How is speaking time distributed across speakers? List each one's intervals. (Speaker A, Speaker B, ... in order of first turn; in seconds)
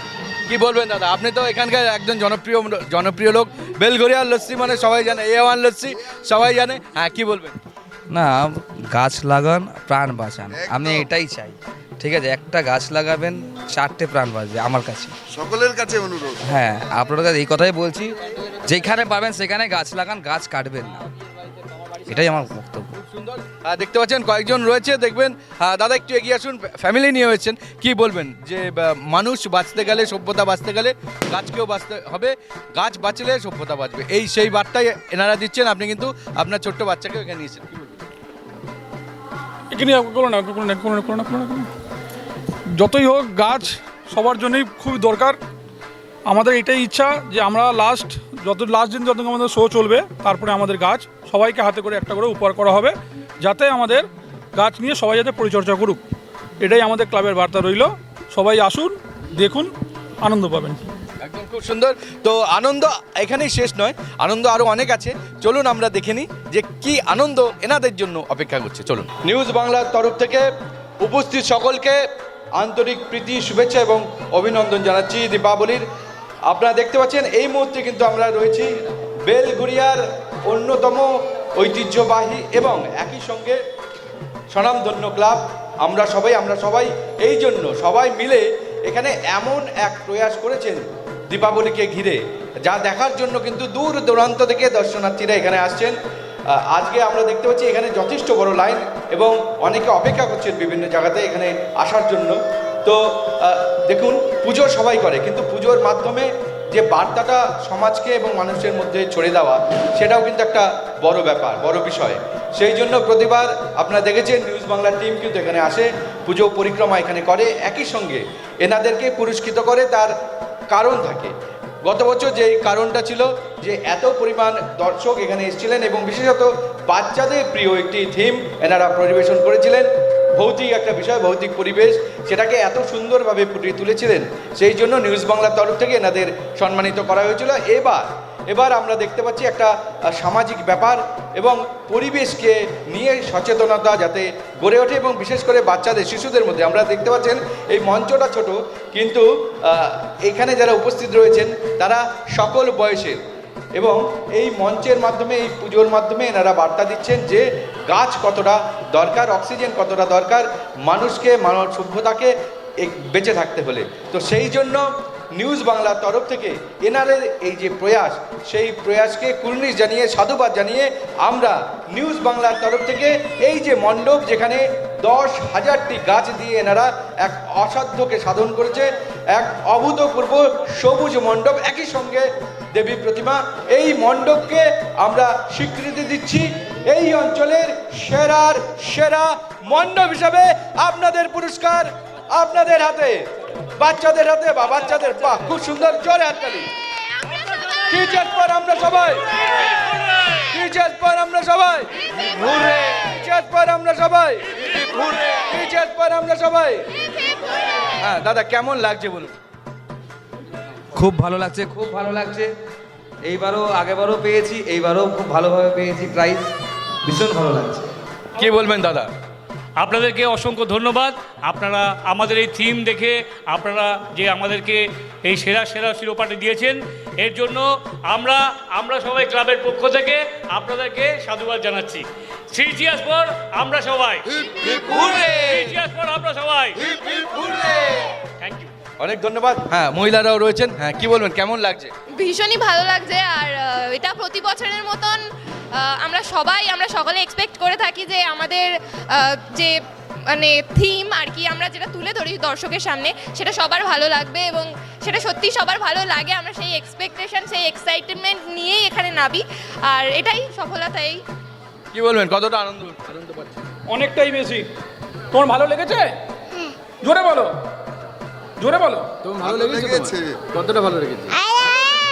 Speaker A: 0.5-7.5, 23.0-37.7, 61.2-70.5, 71.0-72.0, 72.6-75.8, 76.5-78.7, 79.2-83.6, 84.5-96.0, 96.5-120.1, 120.7-121.3, 121.8-153.2, 153.8-193.2, 193.8-196.7, 197.9-199.2, 200.4-206.8, 208.0-209.3, 218.4-219.1, 237.0-238.1, 239.0-241.9, 261.9-263.5, 269.3-271.3
Speaker B: 8.1-15.1, 16.4-21.0, 22.1-22.9, 210.9-212.5, 213.2-216.5, 217.0-217.9
Speaker C: 39.7-41.7, 42.7-45.4, 46.3-56.0, 56.6-60.9, 263.9-264.7, 265.3-266.2, 267.0-267.6, 268.6-269.2
Speaker D: 219.8-236.8, 238.4-238.7
Speaker E: 242.2-245.2, 245.7-249.7, 250.3-261.2